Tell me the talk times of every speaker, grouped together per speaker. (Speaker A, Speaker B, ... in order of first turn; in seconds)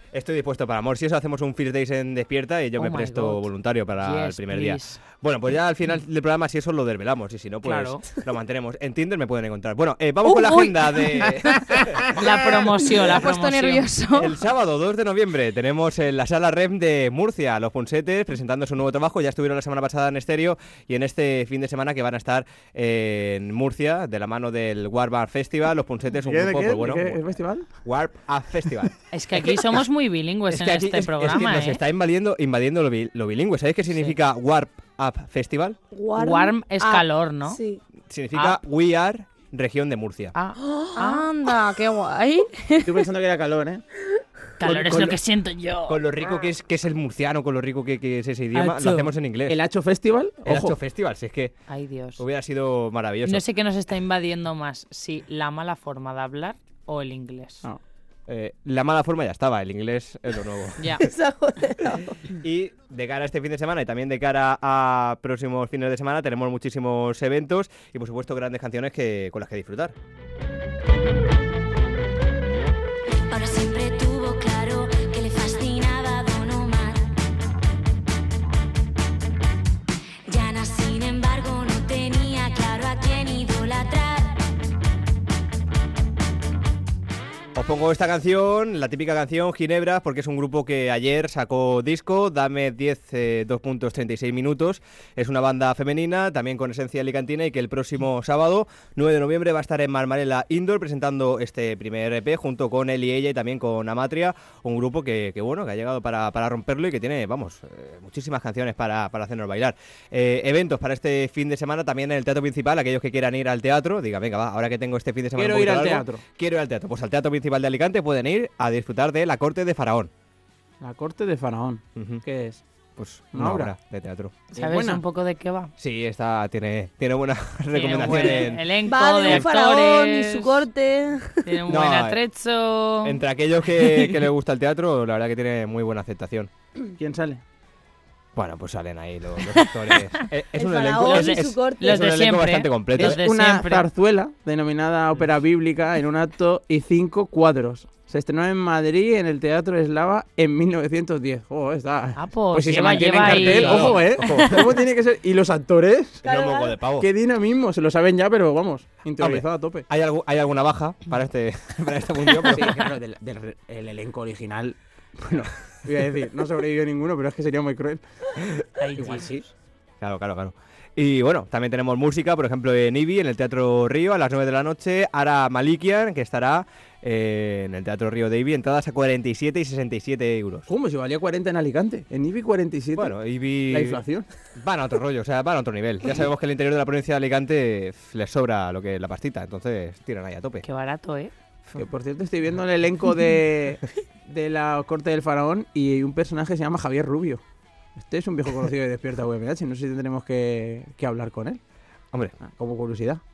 Speaker A: 0.1-12.2, 14.2-27.2, 27.8-28.9, 30.5-35.8, 38.1-40.3, 44.6-45.2, 45.9-49.6, 50.5-51.5, 52.2-53.4, 58.3-60.8, 62.4-69.9, 87.5-120.1, 122.0-122.2, 123.0-124.3, 125.8-128.6, 131.7-132.2, 133.0-136.5, 138.3-143.2, 153.0-154.7, 156.2-157.1, 159.2-162.8, 170.0-180.7, 182.9-184.0, 184.6-190.6
Speaker B: 2.8-3.5, 4.0-5.0, 7.6-8.0, 12.1-13.9, 29.1-31.8, 33.9-34.2, 36.1-37.6, 38.3-38.6, 40.3-41.2, 44.6-46.0, 48.5-49.1, 51.7-52.2, 53.2-57.6, 60.8-61.0, 124.5-125.7, 127.7-130.6, 131.4-133.2, 133.8-134.1, 139.5-140.2, 141.0-143.8, 152.2-154.0, 168.8-169.5, 190.6-191.3
Speaker C: 10.3-10.6, 12.2-14.4, 41.0-43.1
Speaker D: 26.2-27.6, 42.8-43.8, 49.5-50.8, 115.3-116.2, 120.8-122.6, 123.3-123.7, 124.5-125.0, 137.0-137.4, 142.9-156.2, 157.0-159.8, 162.5-168.0, 168.9-169.4, 180.7-183.1, 183.7-184.3, 191.7-197.4, 197.9-201.6, 202.4-203.2
Speaker E: 35.9-37.8, 61.0-62.2, 128.1-131.4, 140.6-142.1, 156.2-156.7
Speaker F: 73.3-77.1, 80.3-84.4